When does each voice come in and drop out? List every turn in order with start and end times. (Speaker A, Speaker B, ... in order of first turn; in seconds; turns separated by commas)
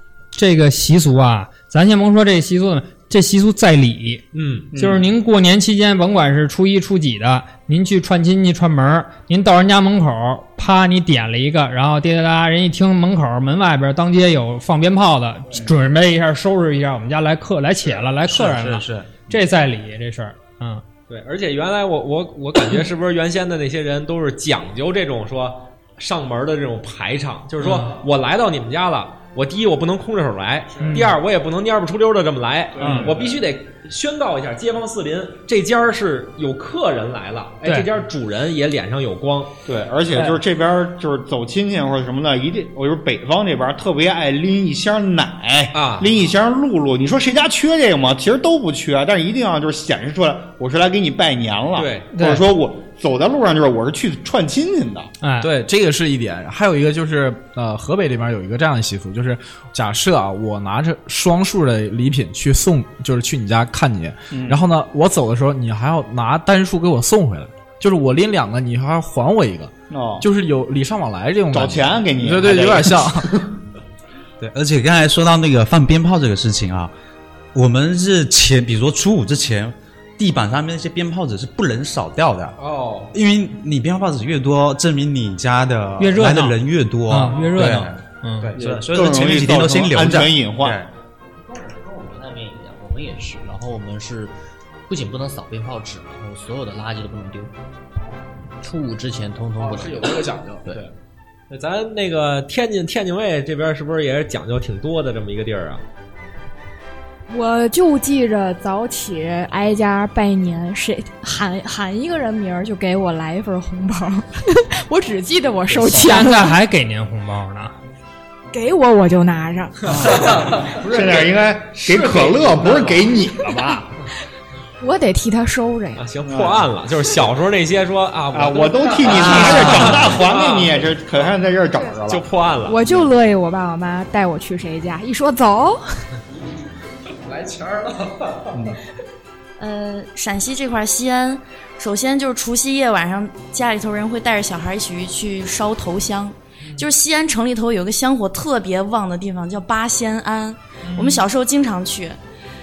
Speaker A: 0.3-20.8, Speaker B: 4.3-4.7, Speaker C: 4.7-5.0, Speaker D: 18.3-19.4, Speaker B: 21.1-39.5, Speaker A: 27.6-28.0, Speaker E: 30.7-31.1, Speaker A: 30.8-31.1, Speaker E: 32.8-33.4, Speaker A: 32.8-33.1, Speaker C: 32.8-33.1, Speaker C: 39.6-55.1, Speaker A: 40.1-40.4, Speaker B: 45.7-46.1, Speaker B: 51.8-52.1, Speaker A: 52.1-52.5, Speaker A: 55.2-55.5, Speaker E: 55.4-73.3, Speaker C: 64.3-64.6, Speaker C: 69.9-70.2, Speaker C: 71.5-73.5, Speaker D: 74.4-76.9, Speaker D: 77.5-82.6, Speaker B: 82.6-83.1, Speaker D: 83.1-90.9, Speaker A: 86.0-88.5, Speaker C: 88.6-90.8, Speaker F: 91.4-94.3, Speaker F: 94.9-97.5, Speaker F: 98.6-100.8, Speaker E: 99.6-100.9, Speaker B: 101.5-105.8, Speaker G: 107.3-116.6, Speaker A: 115.9-117.8, Speaker G: 118.5-120.0, Speaker C: 119.9-123.9, Speaker B: 120.2-121.2, Speaker B: 121.7-123.1, Speaker G: 124.8-126.0, Speaker B: 126.0-130.9, Speaker C: 126.2-126.7, Speaker C: 128.3-132.2, Speaker B: 132.1-133.1, Speaker G: 132.6-136.1, Speaker E: 137.2-138.6, Speaker H: 139.6-152.2, Speaker A: 150.8-151.2